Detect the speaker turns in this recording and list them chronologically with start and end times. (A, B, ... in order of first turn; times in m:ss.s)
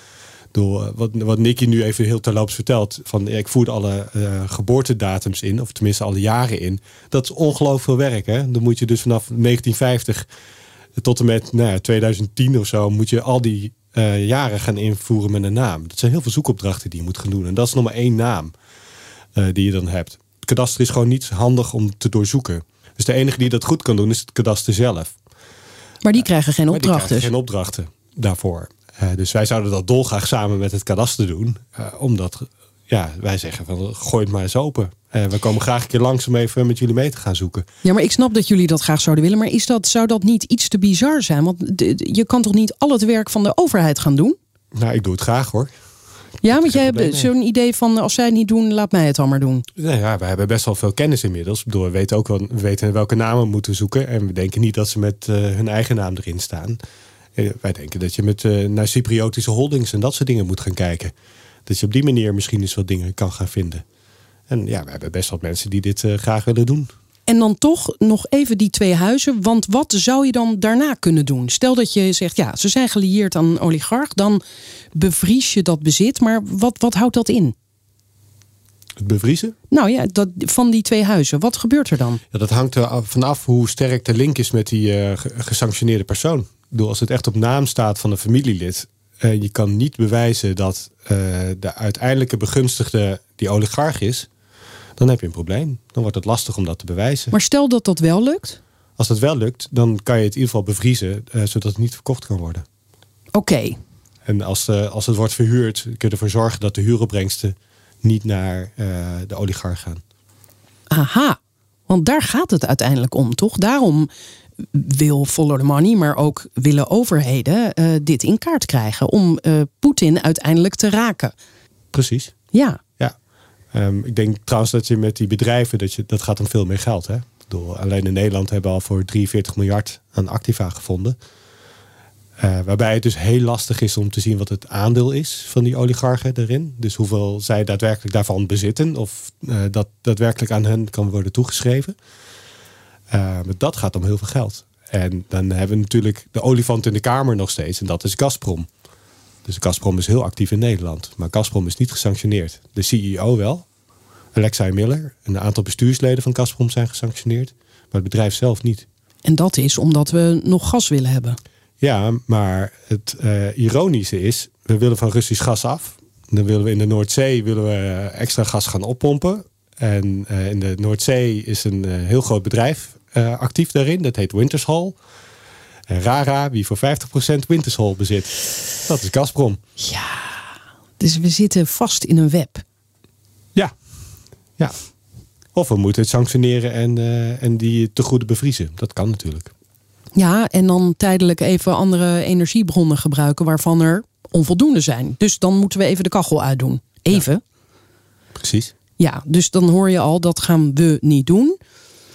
0:00.5-0:10.3 A
0:11.0-0:18.5 A
0:19.4-0:25.2 A
0:26.0-0:27.3 B
0:26.7-0:37.7 A
0:37.8-0:44.4 B
0:44.7-0:45.7 A
0:46.4-0:47.3 A
0:46.4-0:49.6 B
0:49.8-0:56.8 A
0:57.4-1:01.1 A
1:01.7-1:03.8 A
1:04.5-1:06.9 A
1:07.3-1:14.4 B
1:14.9-1:17.6 B
1:19.0-1:19.6 A
1:19.7-1:22.2 B
1:22.3-1:34.3 A
1:35.0-1:37.3 A
1:37.3-1:38.6 B
1:39.0-1:42.6 A
1:43.4-1:43.8 B
1:44.2-1:50.0 A
1:50.9-1:54.1 B
1:54.7-2:01.4 B
2:01.9-2:02.3 A
2:02.5-2:02.8 B
2:03.7-2:11.2 A
2:12.4-2:22.0 A
2:23.1-2:28.7 A
2:29.4-2:33.7 A
2:34.3-2:38.9 A
2:39.2-2:41.4 B
2:41.8-2:55.0 A
2:55.9-2:59.6 A
2:59.8-3:00.4 B
3:01.0-3:02.6 B
3:05.5-3:09.5 A
3:10.2-3:17.4 B
3:18.4-3:18.7 A
3:19.0-3:21.6 B